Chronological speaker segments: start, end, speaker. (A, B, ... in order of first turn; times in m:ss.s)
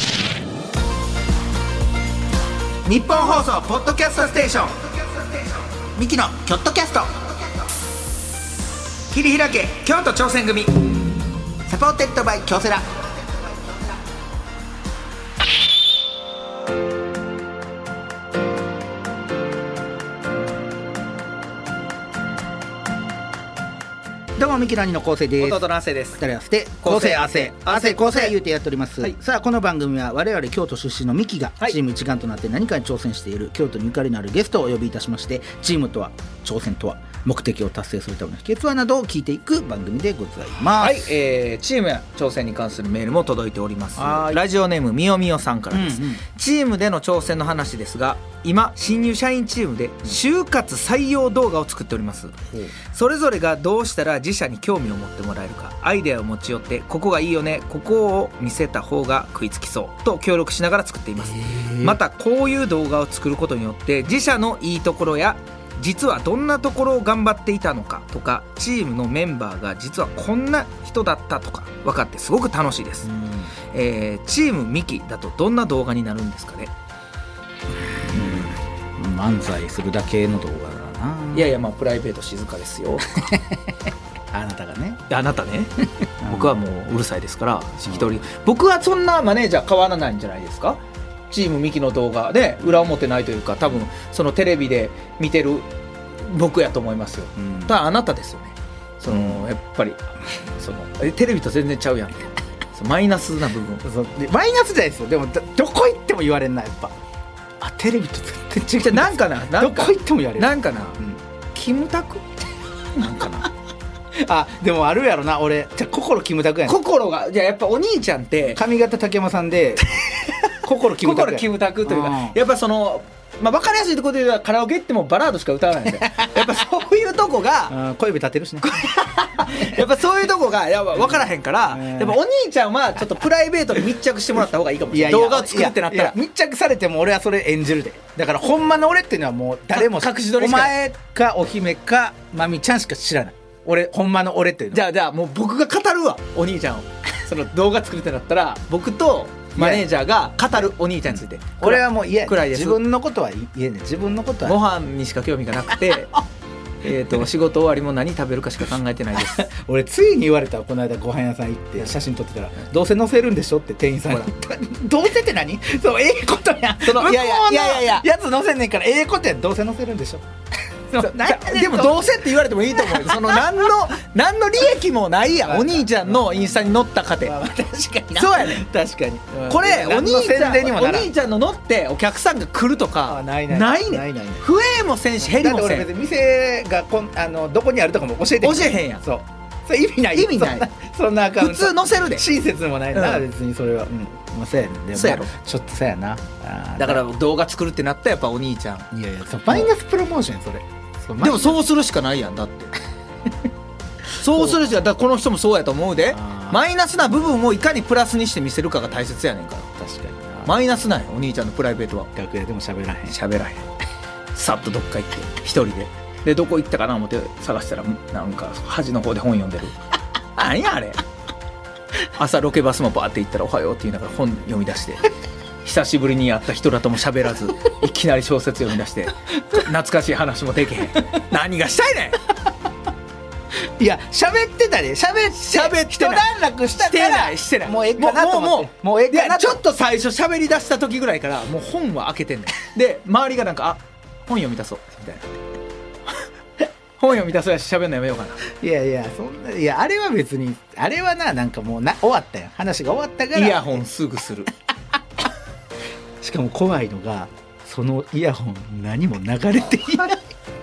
0:02.8-0:04.9 A
0:06.0-0:07.1 B
0:09.1-0:10.8 A
0:11.7-0:12.9 B
0:24.4-0:25.6 B
0:25.4-0:26.2 A
0:26.2-0:41.1 B
0:26.8-0:28.4 A
0:40.8-0:52.4 A
0:44.0-0:44.4 B
0:45.7-0:46.2 B
0:52.9-1:13.1 A
1:01.2-1:02.0 B
1:13.0-1:13.5 B
1:13.7-1:16.7 A
1:18.1-1:21.5 B
1:21.3-1:23.2 A
1:23.2-1:25.0 B
1:25.1-1:25.7 A
1:26.2-1:26.6 B
1:26.2-1:30.8 A
1:31.3-1:35.7 A
1:36.2-1:40.0 A
1:37.4-1:37.7 B
1:39.1-1:39.4 B
1:40.6-1:42.2 A
1:42.7-1:43.8 A
1:43.8-1:46.9 B
1:47.6-1:51.2 B
1:48.8-1:51.0 A
1:51.5-1:52.4 A
1:52.9-1:53.5 A
1:54.2-1:56.7 B
1:56.7-1:58.6 A
1:58.5-1:59.8 B
2:00.6-2:02.4 B
2:00.9-2:07.7 A
2:05.9-2:06.4 B
2:07.7-2:08.7 B
2:08.6-2:16.2 A
2:11.7-2:12.2 B
2:14.9-2:24.8 B
2:19.7-2:20.8 A
2:24.7-2:32.8 A
2:29.6-2:29.8 B
2:31.6-2:34.6 B
2:34.4-2:36.2 A
2:36.8-2:39.4 A
2:39.2-2:50.2 B
2:46.8-2:48.0 A
2:50.9-2:52.2 B
2:51.0-2:57.4 A
2:52.8-2:53.6 B
2:55.4-2:56.6 B
2:57.2-3:01.1 B
2:58.2-2:58.6 A
2:59.5-3:05.9 A
3:03.1-3:04.4 B
3:05.2-3:17.0 B
3:08.4-3:09.0 A
3:10.1-3:10.7 A
3:11.4-3:12.2 A
3:12.9-3:13.2 A
3:14.9-3:15.3 A
3:16.8-3:18.8 A
3:18.9-3:21.6 B
3:21.2-3:22.7 A
3:24.2-3:29.7 A
3:26.1-3:26.6 B
3:29.8-3:30.5 B
3:30.4-3:32.1 A
3:32.2-3:33.2 B
3:33.1-3:33.6 A
3:34.3-3:39.8 A
3:40.4-3:41.0 A
3:42.2-3:45.0 A
3:45.6-3:52.2 A
3:53.8-3:59.6 B
3:55.5-4:05.2 A
4:07.0-4:08.4 A
4:08.5-4:13.6 B
4:13.3-4:14.5 A
4:16.2-4:20.2 B